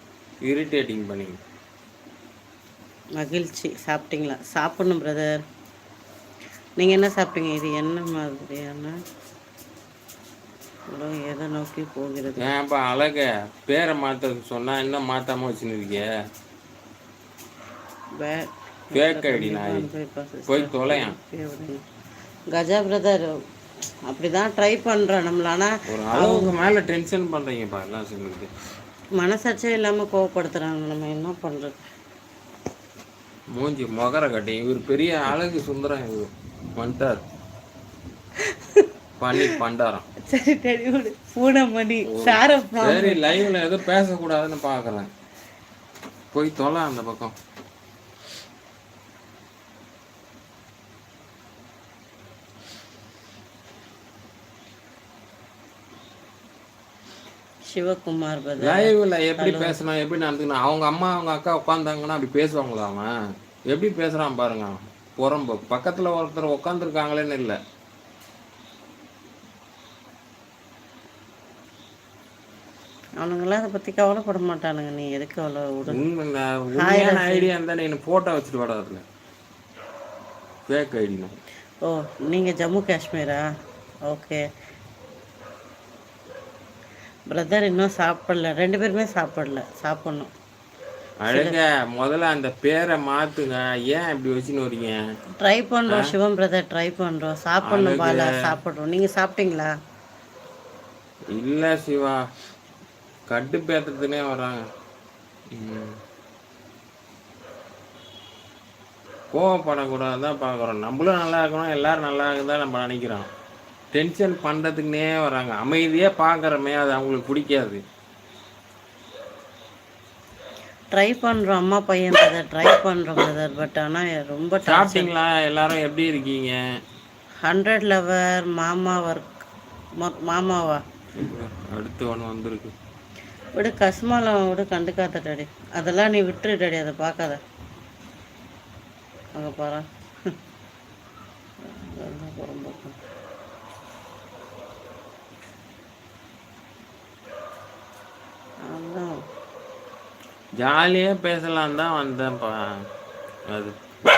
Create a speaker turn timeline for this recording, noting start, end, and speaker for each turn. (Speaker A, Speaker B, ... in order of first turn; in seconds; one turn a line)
Speaker A: 0.4-1.4
Speaker B: 3.2-5.4
Speaker B: 6.8-8.9
Speaker B: 10.9-12.5
Speaker A: 12.4-16.1
Speaker B: 18.2-21.8
Speaker A: 18.9-19.9
Speaker A: 20.5-21.1
Speaker B: 22.5-23.3
Speaker B: 24.1-26.5
Speaker A: 25.9-28.5
Speaker B: 29.2-31.8
Speaker A: 33.5-37.2
Speaker A: 39.2-40.0
Speaker B: 40.3-43.4
Speaker A: 42.1-45.1
Speaker A: 46.3-47.3
Speaker B: 57.7-59.8
Speaker A: 58.6-63.1
Speaker A: 63.7-67.6
Speaker B: 73.2-76.0
Speaker A: 75.9-79.0
Speaker B: 76.8-77.5
Speaker A: 80.7-81.3
Speaker B: 81.8-83.4
Speaker B: 84.1-84.4
Speaker B: 87.3-90.3
Speaker A: 91.2-95.0
Speaker B: 91.3-91.6
Speaker B: 95.4-99.7
Speaker A: 97.6-98.3
Speaker A: 101.3-102.2
Speaker A: 103.3-104.6
Speaker A: 105.5-105.9
Speaker A: 109.3-113.3
Speaker A: 113.9-117.8
Speaker B: 120.9-125.1
Speaker A: 124.7-126.6
Speaker B: 127.5-129.5
Speaker B: 130.0-130.8
Speaker A: 131.2-132.7
Speaker B: 133.6-137.4
Speaker B: 139.3-139.8
Speaker B: 141.7-143.0
Speaker B: 148.7-149.1
Speaker A: 150.6-152.5